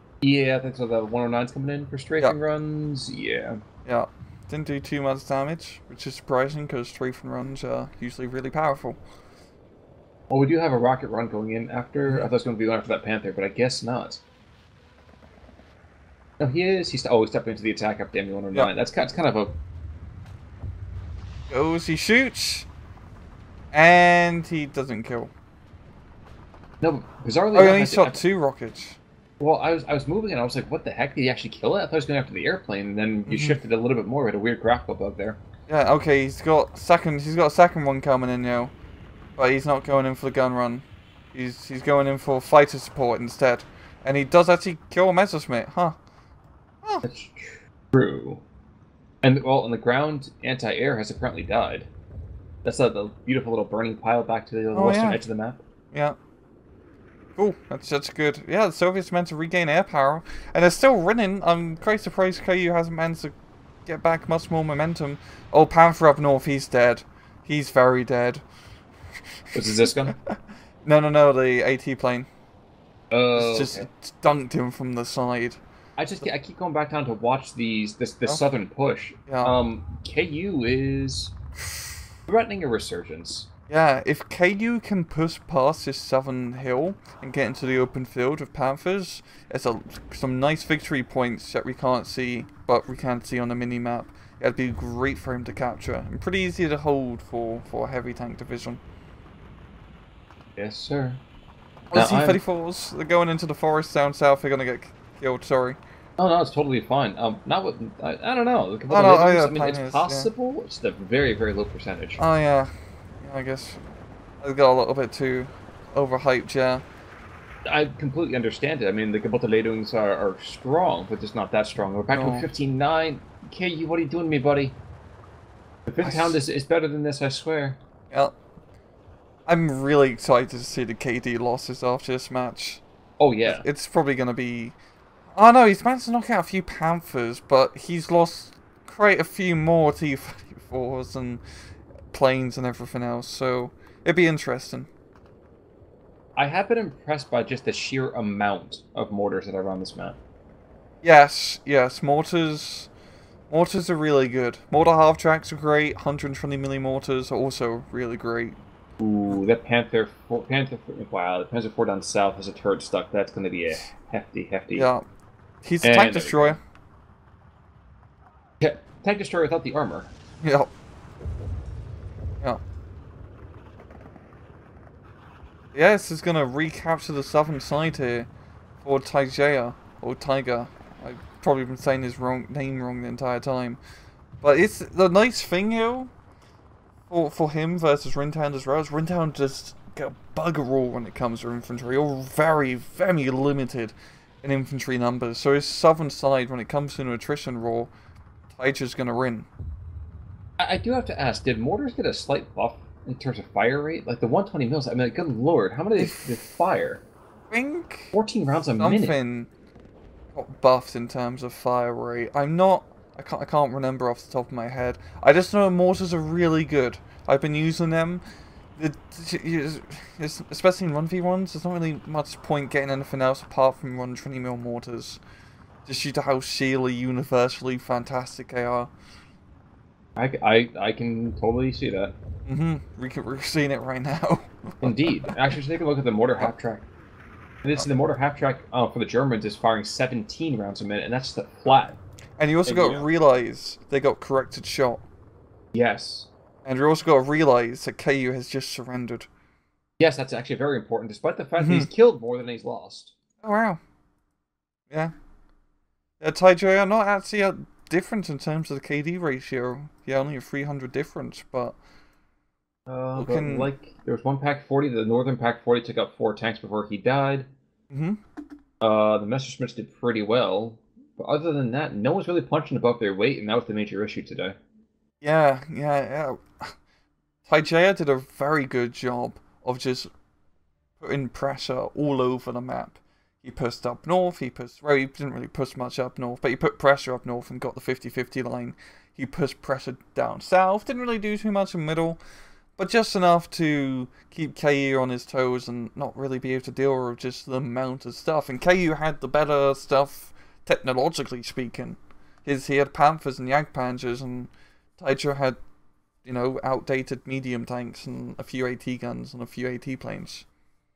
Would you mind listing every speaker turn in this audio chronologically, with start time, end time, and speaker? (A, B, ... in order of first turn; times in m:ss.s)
0:00.2-0:03.6 A
0:03.8-0:09.0 B
0:10.3-0:14.2 A
0:16.4-0:19.6 A
0:21.5-0:22.7 B
0:23.7-0:25.3 B
0:26.8-0:28.2 A
0:27.5-0:29.0 B
0:29.4-0:35.4 A
0:33.3-0:33.6 B
0:35.7-0:38.7 B
0:39.4-0:46.0 B
0:47.0-0:48.4 A
0:49.2-0:51.9 A
0:52.6-0:55.6 A
0:54.7-0:55.2 B
0:55.9-0:56.2 B
0:57.4-1:08.4 B
1:09.5-1:12.3 B
1:09.5-1:10.2 A
1:13.1-1:13.9 A
1:13.4-1:15.6 B
1:16.0-1:21.4 A
1:19.3-1:19.5 B
1:22.3-1:23.5 A
1:23.7-1:38.8 B
1:40.6-1:41.2 A
1:41.9-1:45.8 B
1:41.9-1:42.4 A
1:46.2-1:52.2 A
1:48.9-1:50.3 B
1:52.2-1:53.8 B
1:54.4-1:56.8 B
1:57.6-2:04.8 A
2:02.1-2:02.5 B
2:05.9-2:07.8 A
2:06.0-2:06.4 B
2:09.5-2:12.8 B
2:13.2-2:13.6 A
2:13.4-2:14.8 B
2:15.3-2:21.4 B
2:22.1-2:24.9 B
2:26.4-2:30.2 A
2:31.0-2:32.9 B
2:33.5-2:38.6 B
2:39.0-2:44.9 A
2:44.8-2:45.0 B
2:45.6-2:46.6 B
2:45.8-2:46.6 A
2:48.6-2:50.1 A
2:50.4-2:50.7 B
2:55.7-2:58.3 B
2:58.8-3:03.8 B
3:04.4-3:06.1 B
3:07.1-3:17.9 B
3:18.5-3:19.5 B
3:20.6-3:27.0 A
3:26.0-3:26.4 B
3:27.5-3:28.1 B
3:28.1-3:29.2 A
3:28.8-3:29.5 B
3:30.3-3:38.2 B
3:38.8-3:45.2 B
3:45.8-3:48.9 B
3:50.2-3:52.2 A
3:52.5-3:55.6 B
3:54.8-3:56.9 A
3:57.6-4:02.0 A
4:02.4-4:05.0 B
4:02.7-4:03.1 A
4:05.7-4:06.3 A
4:06.6-4:09.3 B
4:10.0-4:13.1 A
4:11.6-4:11.9 B
4:13.4-4:13.8 B
4:16.2-4:21.8 B
4:22.9-4:27.5 A
4:23.2-4:23.7 B
4:27.9-4:28.2 B
4:28.8-4:34.6 A
4:35.2-4:36.8 B
4:37.5-4:40.1 B
4:41.0-4:52.2 B
4:52.8-5:05.6 B
5:06.2-5:10.4 B